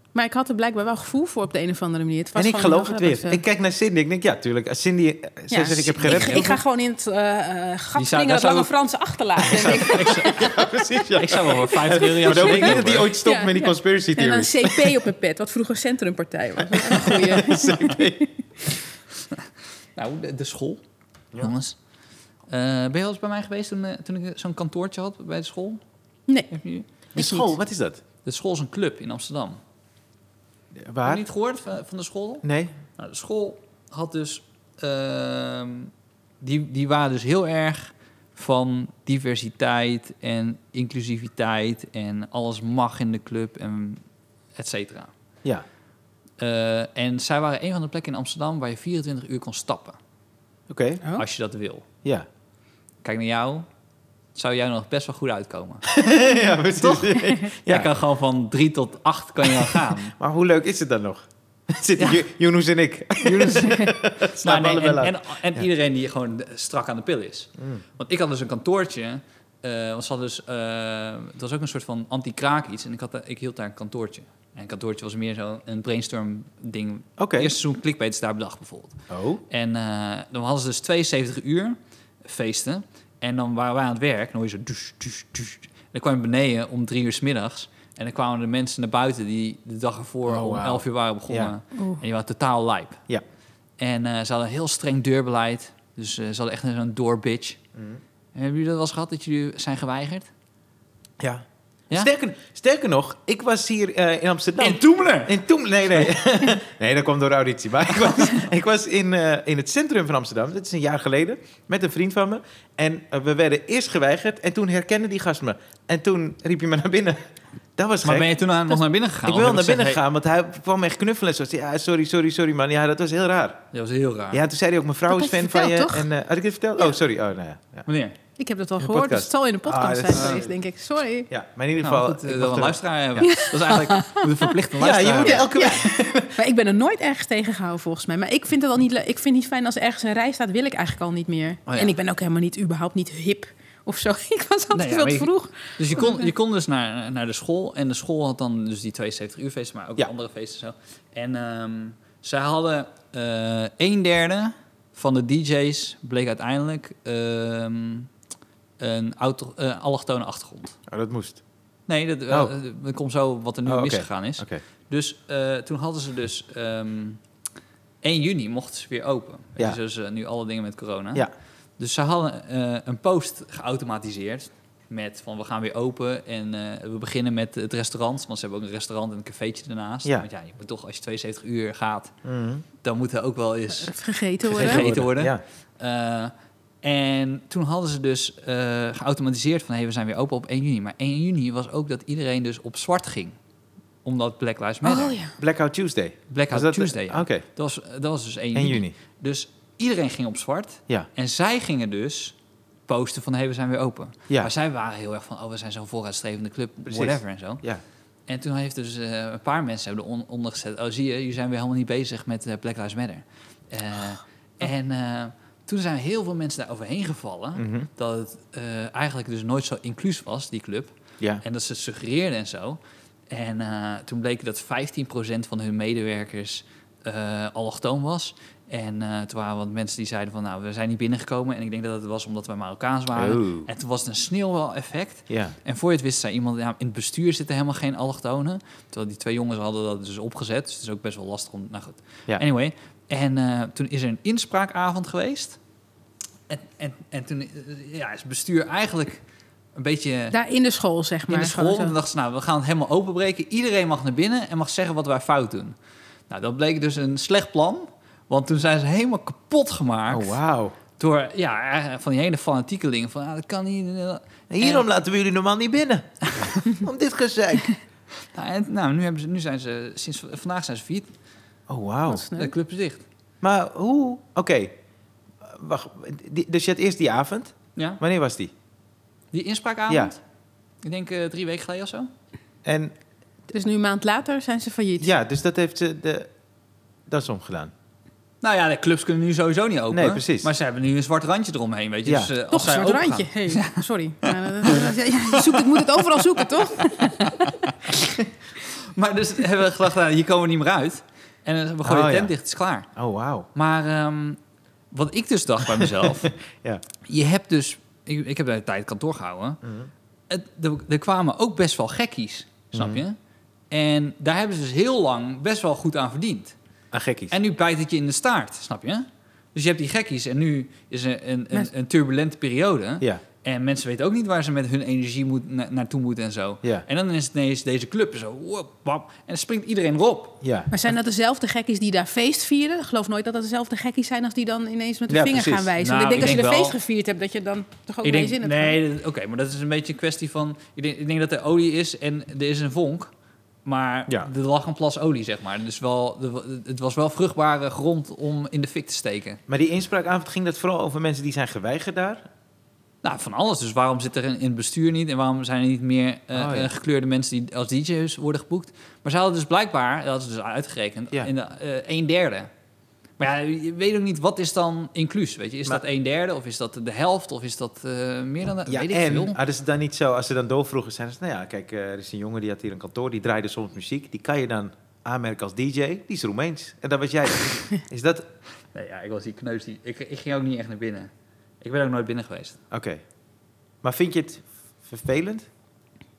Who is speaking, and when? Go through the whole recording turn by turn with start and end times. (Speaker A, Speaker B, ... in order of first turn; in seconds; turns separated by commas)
Speaker A: 0.1-3.4, Speaker B: 2.4-6.6, Speaker A: 5.5-10.7, Speaker C: 6.0-6.5, Speaker C: 8.0-8.7, Speaker C: 9.4-10.5, Speaker B: 9.6-15.0, Speaker C: 11.2-13.1, Speaker A: 11.9-18.3, Speaker B: 16.7-18.3, Speaker C: 20.0-20.8, Speaker C: 21.4-21.8, Speaker C: 22.5-25.8, Speaker A: 26.3-26.6, Speaker C: 26.5-26.9, Speaker B: 27.1-28.0, Speaker A: 27.2-27.5, Speaker C: 28.2-29.6, Speaker B: 30.8-31.2, Speaker C: 31.1-32.5, Speaker B: 32.4-32.7, Speaker C: 33.0-44.0, Speaker C: 44.5-45.1, Speaker C: 46.4-50.0, Speaker B: 50.7-51.0, Speaker C: 51.2-51.9, Speaker C: 53.0-53.7, Speaker C: 54.4-55.9, Speaker B: 55.9-57.9, Speaker C: 56.8-60.1, Speaker B: 59.4-65.6, Speaker C: 62.0-62.2, Speaker C: 63.2-93.0, Speaker B: 77.2-77.5, Speaker B: 79.1-79.4, Speaker B: 90.3-91.5, Speaker A: 91.8-92.0, Speaker C: 93.8-97.6, Speaker C: 98.3-100.3, Speaker B: 101.2-117.2, Speaker C: 104.6-105.4, Speaker B: 117.8-118.3, Speaker C: 118.0-120.0, Speaker B: 119.3-123.7, Speaker C: 123.7-124.4, Speaker B: 124.3-127.9, Speaker A: 125.1-126.1, Speaker C: 127.9-128.2, Speaker A: 128.4-131.3, Speaker B: 128.8-130.5, Speaker C: 130.1-130.4, Speaker B: 131.3-132.8, Speaker C: 131.8-135.7, Speaker A: 133.2-134.5, Speaker B: 134.8-136.3, Speaker A: 135.3-146.3, Speaker C: 141.7-141.9, Speaker C: 144.7-158.1, Speaker C: 158.8-160.8, Speaker B: 160.9-161.4, Speaker C: 161.9-167.2, Speaker B: 163.7-164.6, Speaker C: 168.0-171.3, Speaker C: 171.8-182.1, Speaker B: 182.2-182.7, Speaker C: 182.8-193.4, Speaker A: 183.8-184.9, Speaker B: 184.5-185.4, Speaker C: 194.1-195.2, Speaker A: 194.8-195.3, Speaker B: 195.4-197.4, Speaker C: 196.3-202.3, Speaker B: 198.6-198.9, Speaker C: 202.9-207.6, Speaker B: 206.9-207.8, Speaker C: 208.3-245.6, Speaker B: 217.6-217.9, Speaker B: 233.2-233.7, Speaker B: 235.3-235.6, Speaker C: 246.5-249.2, Speaker C: 249.8-250.3, Speaker A: 250.3-251.9, Speaker C: 251.3-255.8, Speaker C: 256.3-260.4, Speaker B: 260.1-260.8, Speaker C: 261.0-264.8, Speaker B: 264.5-267.7, Speaker C: 266.3-266.6, Speaker C: 268.3-271.1, Speaker B: 271.7-272.3, Speaker A: 272.1-272.5, Speaker C: 272.4-273.0, Speaker B: 273.4-274.8, Speaker B: 275.4-278.5, Speaker C: 279.3-280.2, Speaker B: 279.9-280.1, Speaker C: 280.8-282.1, Speaker B: 282.6-282.9, Speaker A: 283.5-285.1, Speaker B: 285.0-286.3, Speaker B: 287.1-287.7, Speaker C: 288.4-296.4, Speaker B: 289.9-290.5, Speaker B: 292.1-292.3, Speaker A: 292.5-297.4, Speaker C: 297.1-302.9, Speaker B: 301.8-302.3, Speaker B: 303.0-303.5, Speaker C: 303.6-304.4, Speaker C: 304.9-306.3, Speaker B: 305.6-306.8, Speaker C: 307.1-309.6, Speaker B: 309.6-309.9, Speaker C: 310.3-313.2, Speaker B: 312.7-313.0, Speaker C: 313.7-316.6, Speaker B: 316.9-317.4, Speaker C: 317.3-330.4, Speaker B: 330.4-330.7, Speaker A: 330.7-338.8, Speaker B: 335.1-335.7, Speaker C: 335.8-336.8, Speaker C: 338.0-343.1, Speaker C: 343.6-349.4, Speaker B: 349.5-352.3, Speaker C: 353.0-362.5, Speaker B: 356.3-356.7, Speaker C: 363.2-369.4, Speaker B: 368.7-378.3, Speaker C: 378.7-381.1, Speaker C: 381.6-382.6, Speaker B: 382.7-383.0, Speaker B: 383.8-385.5